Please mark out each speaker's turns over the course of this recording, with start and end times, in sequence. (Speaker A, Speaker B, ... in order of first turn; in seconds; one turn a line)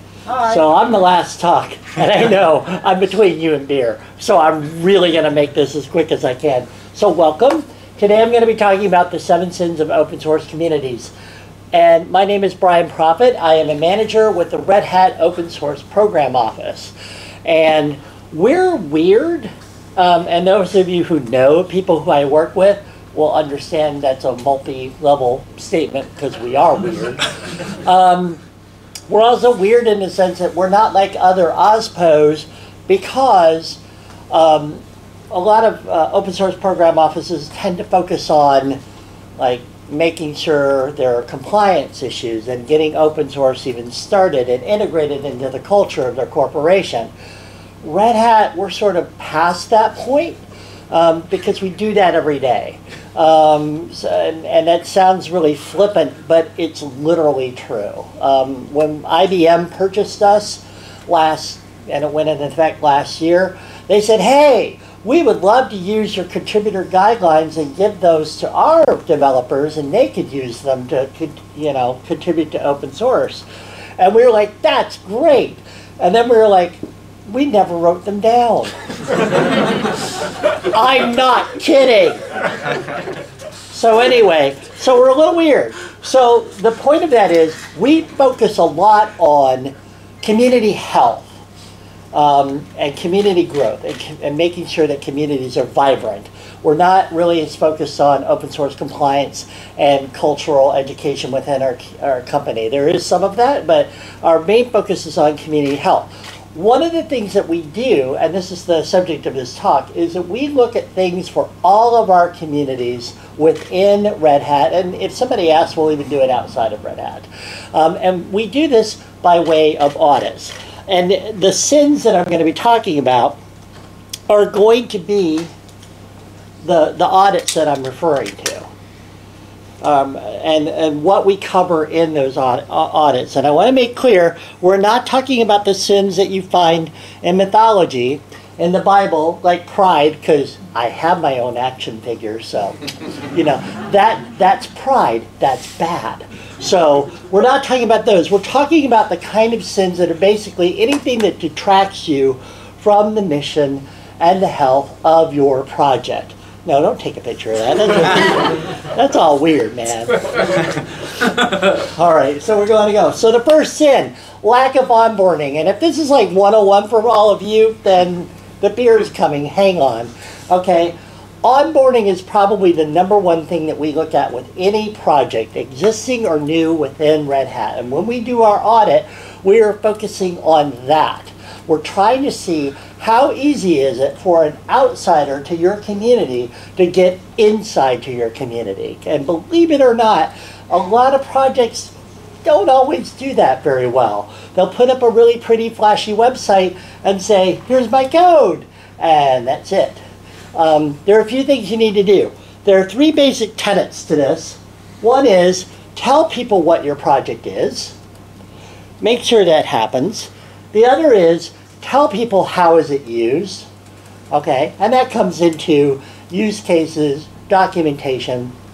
Speaker A: 0.4-11.1
Speaker A: 11.7-16.9
Speaker A: 17.4-27.2
Speaker A: 27.8-28.4
Speaker A: 29.1-38.8
Speaker A: 39.4-47.1
Speaker A: 47.8-73.5
Speaker A: 74.0-78.7
Speaker A: 80.7-82.2
Speaker A: 83.7-91.3
Speaker A: 92.1-123.4
Speaker A: 124.3-125.5
Speaker A: 126.6-128.7
Speaker A: 129.8-160.4
Speaker A: 161.6-200.0
Speaker A: 200.5-208.0
Speaker A: 209.0-213.7
Speaker A: 214.3-218.5